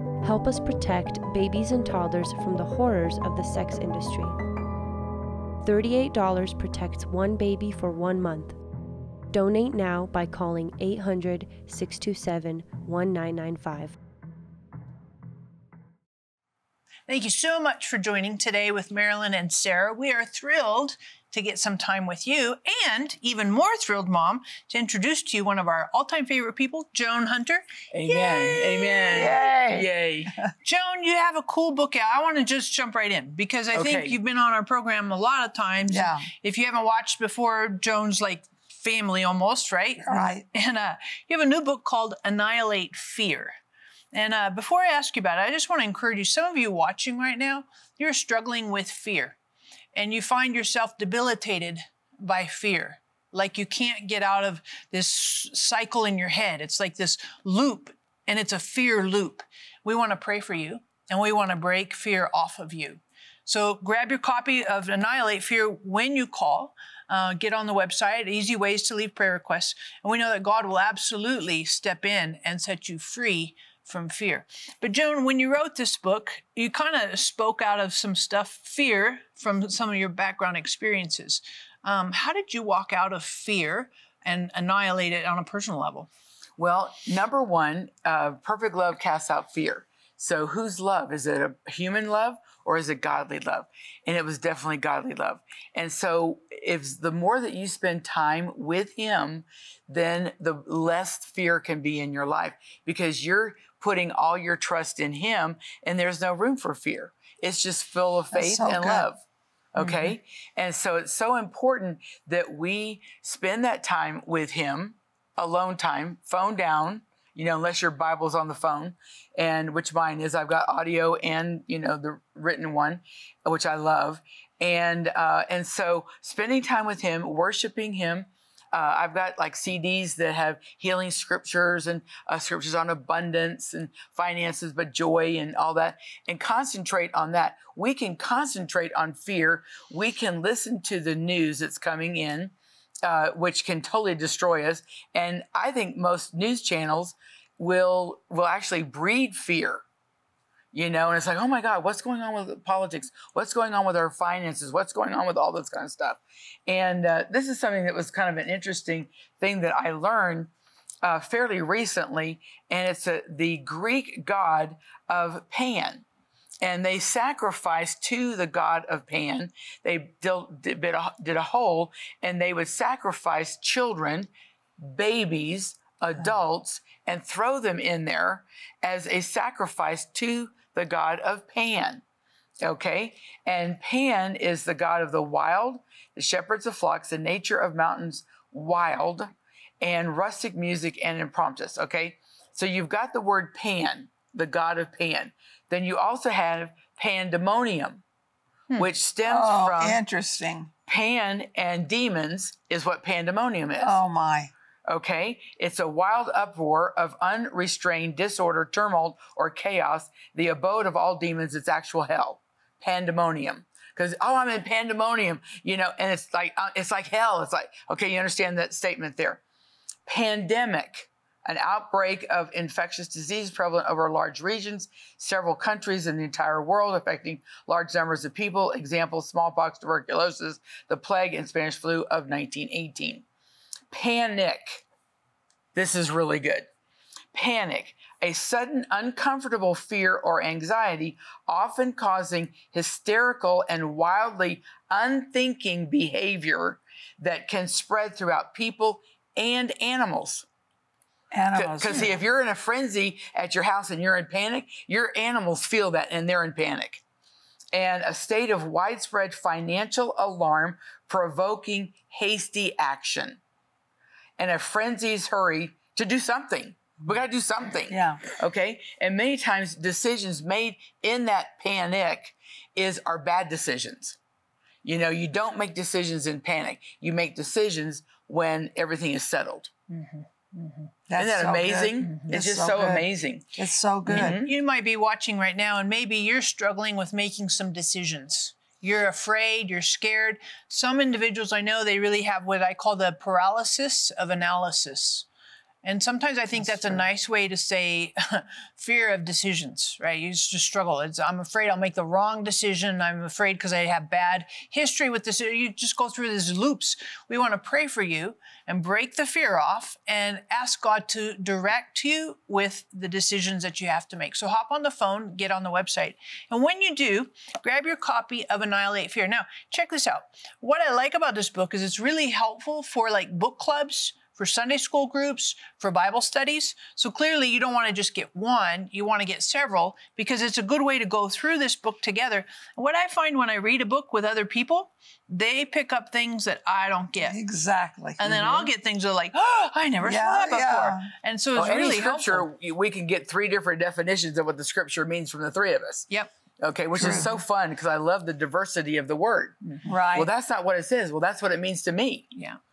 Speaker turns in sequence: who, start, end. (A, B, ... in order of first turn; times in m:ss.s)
0:00.2-0:04.4 A
0:05.6-0:08.6 A
0:09.3-0:14.0 A
0:17.1-0:29.4 B
0:27.9-0:30.4 C
0:29.1-0:29.9 D
0:30.6-0:43.6 B
0:33.7-0:34.2 C
0:35.9-0:36.3 D
0:40.1-0:40.4 D
0:44.1-0:49.4 B
0:50.0-1:26.1 B
1:26.6-1:49.2 C
1:48.3-1:49.1 D
1:49.7-2:29.8 C
1:49.8-1:50.1 B
2:30.7-2:40.5 C
2:41.0-2:46.0 C
2:46.6-3:02.0 C
3:02.6-3:18.0 C
3:18.8-3:20.0 C
3:19.2-3:20.7 D
3:20.9-3:24.0 C
3:23.8-3:24.5 D
3:24.9-3:39.4 C
3:40.1-3:53.2 C
3:53.9-3:54.8 C
3:55.8-3:56.7 C
3:57.3-4:10.5 C
4:11.3-4:12.1 D
4:11.5-4:17.0 C
4:17.7-4:23.4 C
4:24.4-4:34.2 C
4:27.9-4:28.2 D
4:34.8-4:39.7 C
4:39.9-4:40.9 B
4:41.1-4:44.4 D
4:41.2-4:43.4 C
4:42.1-4:42.4 B
4:44.1-4:44.5 C
4:44.1-4:55.3 B
4:55.8-5:37.4 B
5:37.2-5:38.7 D
5:38.2-5:42.5 B
5:40.0-5:41.1 D
5:41.6-5:46.1 C
5:46.6-5:49.6 C
5:47.0-5:47.4 D
5:49.8-5:50.3 D
5:50.1-5:52.3 C